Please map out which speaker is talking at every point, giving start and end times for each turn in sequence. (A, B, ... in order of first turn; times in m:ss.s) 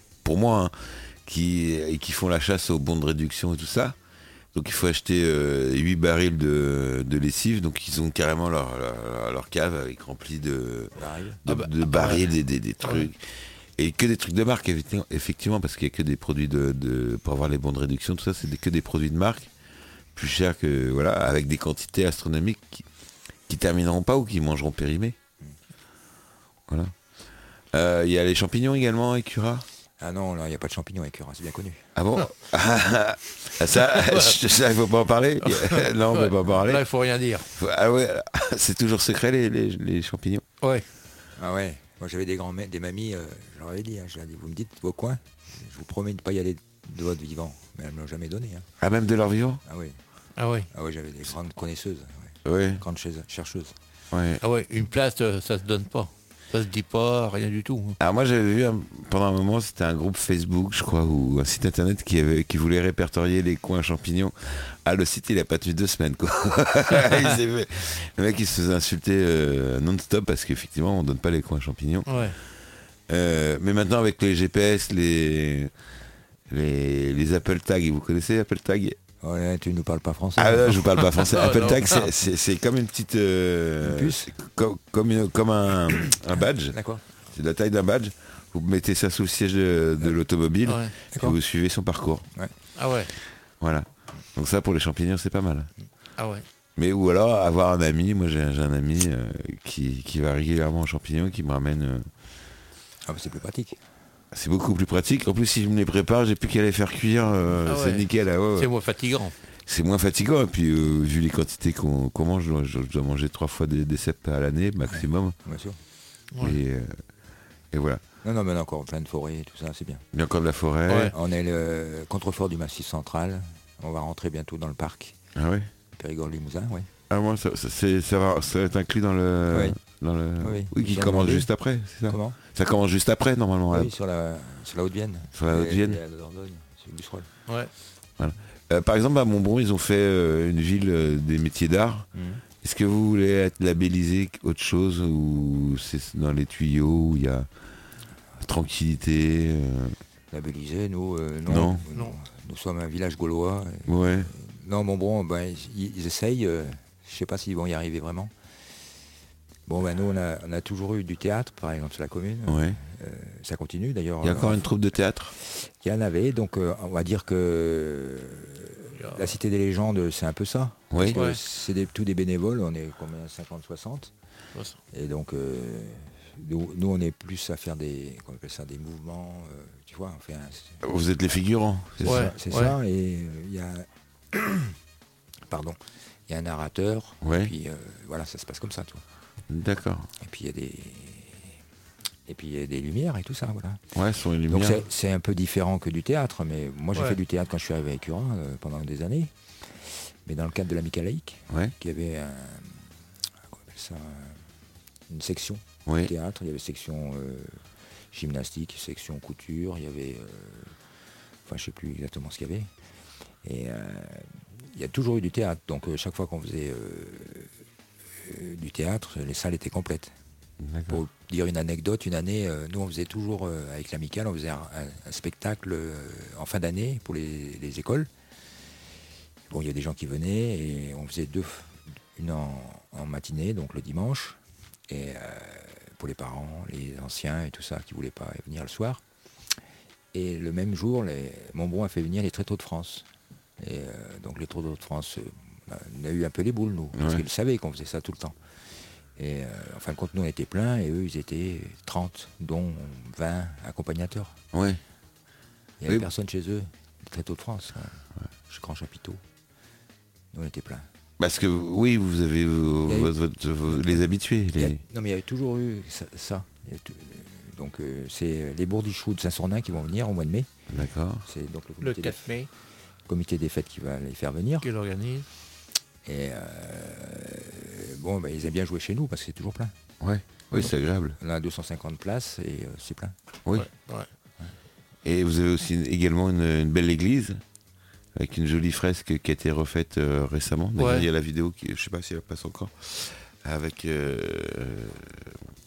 0:00.2-0:04.0 A
0:04.5-0:13.2 A
0:11.0-0:11.4 B
0:11.5-0:12.3 C
0:12.8-0:13.1 C
0:13.8-0:19.5 A
0:20.2-0:22.8 A
0:23.5-0:25.2 A
0:26.7-0:26.9 A
0:27.7-0:29.7 A
0:30.0-0:31.8 B
0:32.0-0:36.8 A
0:33.8-0:34.4 C
0:35.4-0:37.5 C
0:37.6-0:40.4 A
0:40.6-0:40.9 C
0:41.4-0:48.7 B
0:48.8-0:49.6 A
0:49.6-0:50.0 B
0:50.4-0:50.7 C
0:50.7-0:53.8 B
0:52.4-0:52.8 A
0:54.1-0:54.4 A
0:54.4-0:58.0 C
0:58.0-1:12.2 A
1:12.1-1:12.4 C
1:13.1-1:15.7 A
1:16.5-1:19.0 A
1:19.2-1:20.8 B
1:20.4-1:32.3 A
1:21.2-1:22.1 C
1:23.8-1:24.3 B
1:26.7-1:27.0 B
1:30.6-1:30.9 C
1:32.8-1:33.1 C
1:33.6-1:35.7 A
1:36.2-1:36.4 C
1:36.8-1:42.1 A
1:43.0-1:43.8 B
1:44.3-1:48.7 A
1:47.7-1:49.4 C
1:49.7-1:55.4 A
1:54.9-1:55.8 B
1:56.3-1:56.6 C
1:56.4-1:57.0 A
1:57.7-1:58.0 A
1:58.2-2:00.0 B
2:00.1-2:01.1 A
2:00.9-2:01.1 C
2:01.1-2:05.2 B
2:05.4-2:05.7 A
2:05.9-2:06.9 B
2:07.1-2:13.9 A
2:09.5-2:09.8 B
2:10.4-2:11.5 B
2:12.1-2:12.4 B
2:13.7-2:17.3 B
2:15.3-2:16.0 A
2:18.2-2:22.1 A
2:22.1-2:22.4 B
2:22.6-2:27.5 A
2:28.4-2:30.0 A
2:30.3-2:38.3 B
2:31.5-2:31.8 A
2:33.9-2:34.3 A
2:39.7-2:44.6 B
2:42.5-2:42.8 A
2:44.2-2:45.3 A
2:45.5-2:54.1 B
2:49.0-2:49.3 C
2:50.9-2:51.2 A
2:51.1-2:51.4 C
2:54.9-3:00.8 B
3:00.8-3:02.3 A
3:02.0-3:04.8 B
3:02.0-3:02.8 C
3:05.5-3:09.0 B
3:07.2-3:07.5 A
3:09.5-3:10.1 A
3:10.2-3:11.5 B
3:12.3-3:13.8 B
3:13.9-3:14.8 A
3:14.5-3:19.3 B
3:20.2-3:22.8 B
3:23.6-3:24.4 B
3:25.1-3:27.6 B
3:25.9-3:26.1 A
3:28.1-3:30.7 B
3:31.5-3:32.7 B
3:33.4-3:37.5 B
3:38.2-3:40.1 B
3:40.6-3:41.0 A
3:40.9-3:48.1 B
3:49.5-3:59.0 B
4:00.1-4:03.1 B
4:03.6-4:08.4 B
4:06.9-4:07.2 A
4:09.2-4:14.4 B
4:14.5-4:14.8 A
4:15.8-4:18.0 B
4:18.5-4:19.2 B
4:20.3-4:20.9 B
4:21.2-4:24.8 A
4:22.9-4:23.1 B
4:23.7-4:24.0 B
4:24.6-4:30.5 B
4:30.7-4:31.3 A
4:31.3-4:32.3 B
4:31.8-4:32.5 C
4:33.1-4:34.7 B
4:34.6-4:35.3 C
4:36.0-4:39.7 B
4:40.0-4:41.2 A
4:40.6-4:43.2 B
4:43.6-4:44.1 C
4:45.0-4:47.4 A
4:48.2-4:55.4 A
4:50.8-4:51.1 C